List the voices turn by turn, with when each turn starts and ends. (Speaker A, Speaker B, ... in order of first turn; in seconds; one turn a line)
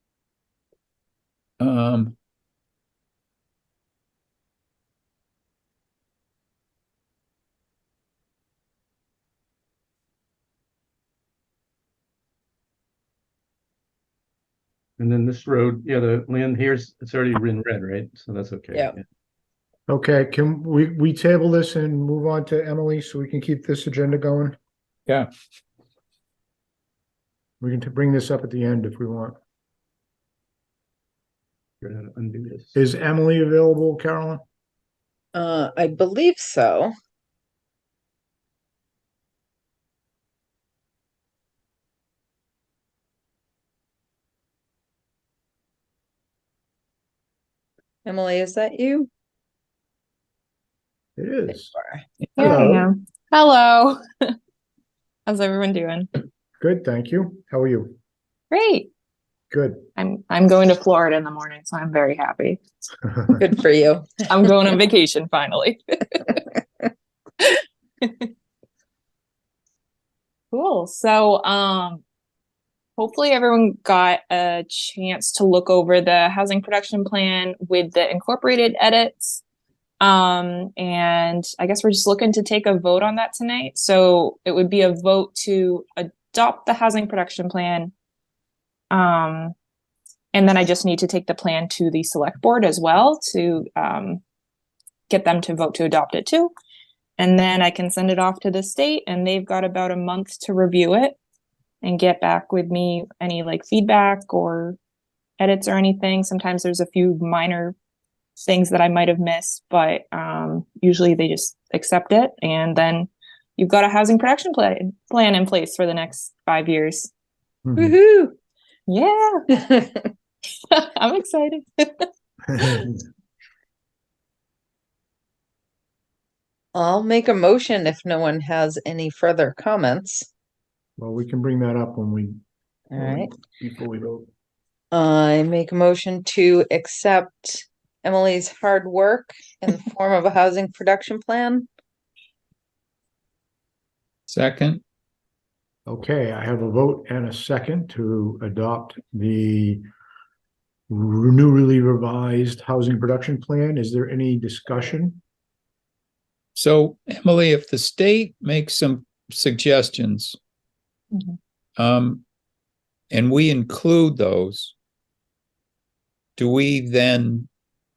Speaker A: 1.6-2.1
Speaker B: 15.0-19.0
Speaker C: 19.9-24.6
Speaker C: 27.6-29.4
Speaker B: 31.8-32.8
Speaker C: 32.8-34.4
Speaker D: 35.3-36.9
Speaker D: 48.1-49.1
Speaker C: 51.2-51.7
Speaker D: 51.8-52.0
Speaker C: 52.4-52.9
Speaker E: 52.4-54.4
Speaker E: 55.3-56.1
Speaker C: 56.6-58.0
Speaker E: 58.5-58.9
Speaker C: 59.5-59.9
Speaker E: 60.0-62.6
Speaker D: 63.4-64.3
Speaker E: 64.3-66.6
Speaker E: 67.4-68.3
Speaker E: 70.5-72.0
Speaker E: 73.0-79.4
Speaker E: 80.0-87.9
Speaker E: 88.9-89.5
Speaker E: 90.3-94.2
Speaker E: 95.1-96.5
Speaker E: 97.2-101.2
Speaker E: 101.8-104.8
Speaker E: 105.4-107.8
Speaker E: 108.4-117.1
Speaker C: 117.7-118.0
Speaker D: 117.8-118.4
Speaker E: 118.9-119.7
Speaker E: 120.7-122.1
Speaker C: 122.5-123.0
Speaker D: 126.8-130.3
Speaker C: 131.0-132.4
Speaker D: 132.9-133.3
Speaker C: 133.0-134.3
Speaker D: 134.9-141.7
Speaker A: 144.3-144.8
Speaker C: 145.9-149.8
Speaker C: 150.9-155.2
Speaker A: 156.6-160.4
Speaker A: 161.8-162.2
Speaker A: 163.1-164.8
Speaker A: 166.4-167.5